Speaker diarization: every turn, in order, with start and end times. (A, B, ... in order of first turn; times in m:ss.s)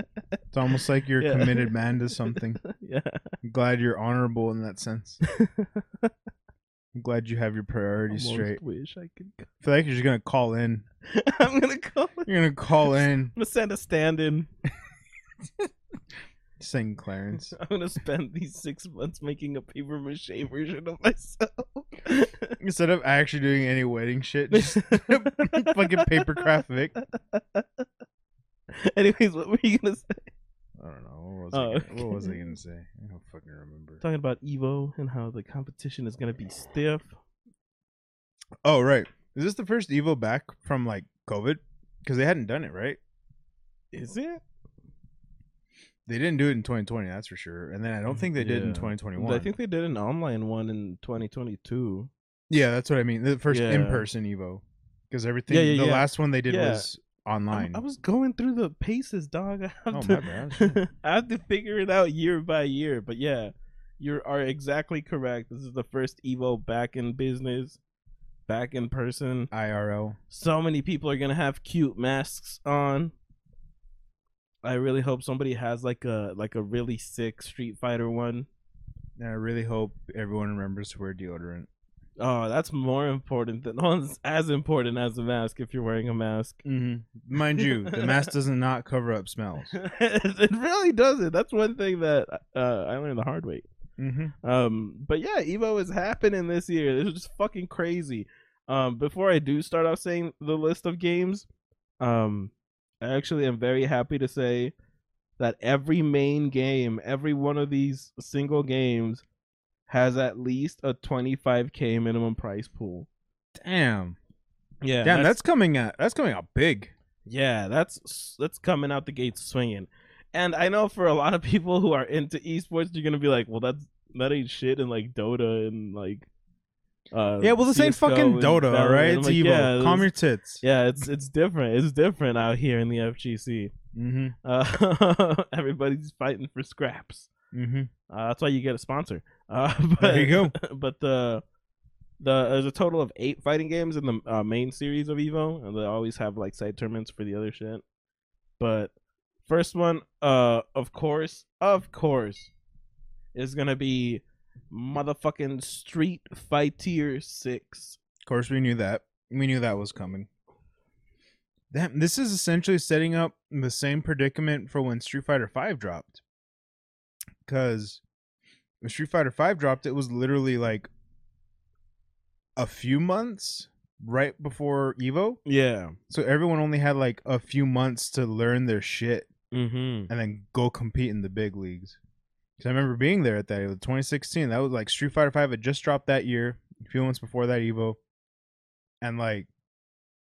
0:00.5-0:02.6 A
0:01.2-0:01.7 B
0:02.3-0:03.2 B
0:03.4-0:05.2 A
0:05.3-0:06.1 B
0:06.9-0:08.6 A
0:08.1-0:09.5 B
0:09.6-0:10.8 A
0:11.0-0:12.3 B
0:12.3-0:13.3 A
0:13.3-0:14.5 B
0:16.6-0:17.6 A
0:17.5-0:22.6 B
0:22.6-0:27.0 A
0:24.5-0:26.5 B
0:27.0-0:27.8 B
0:28.7-0:30.3 B
0:30.8-0:34.0 A
0:31.5-0:32.4 B
0:34.0-0:37.1 B
0:38.6-0:43.0 A
0:43.9-0:44.4 B
0:46.1-0:49.5 A
0:48.1-0:52.1 B
0:52.5-0:57.8 A
0:53.5-0:54.1 B
0:55.5-0:56.9 B
0:57.5-1:07.8 B
0:59.9-1:00.8 A
1:08.5-1:09.5 B
1:09.5-1:10.2 A
1:10.3-1:13.1 B
1:14.6-1:18.5 B
1:19.2-1:21.7 A
1:22.2-1:26.6 B
1:26.6-1:29.8 A
1:27.6-1:28.1 B
1:29.7-1:33.7 B
1:34.0-1:34.3 A
1:34.4-1:41.5 B
1:42.0-1:44.7 B
1:45.4-1:49.2 B
1:49.9-1:53.1 B
1:53.6-1:54.2 A
1:54.8-1:55.4 B
1:55.0-1:56.9 A
1:57.3-2:06.3 B
2:07.1-2:10.1 B
2:07.4-2:10.6 A
2:10.6-2:13.7 B
2:13.9-2:14.4 A
2:14.4-2:17.3 B
2:17.5-2:17.9 A
2:18.1-2:21.4 B
2:20.0-2:20.6 A
2:22.2-2:27.8 B
2:28.6-2:28.9 B
2:29.4-2:32.5 B
2:33.3-2:38.0 B
2:38.3-2:40.3 A
2:41.7-2:46.2 A
2:47.4-2:48.0 A
2:48.8-2:50.9 A
2:52.6-2:55.4 A
2:55.4-2:56.0 B
2:56.1-2:59.3 A
2:59.5-3:00.1 B
3:00.1-3:02.0 A
3:02.6-3:08.0 A
3:09.0-3:09.5 A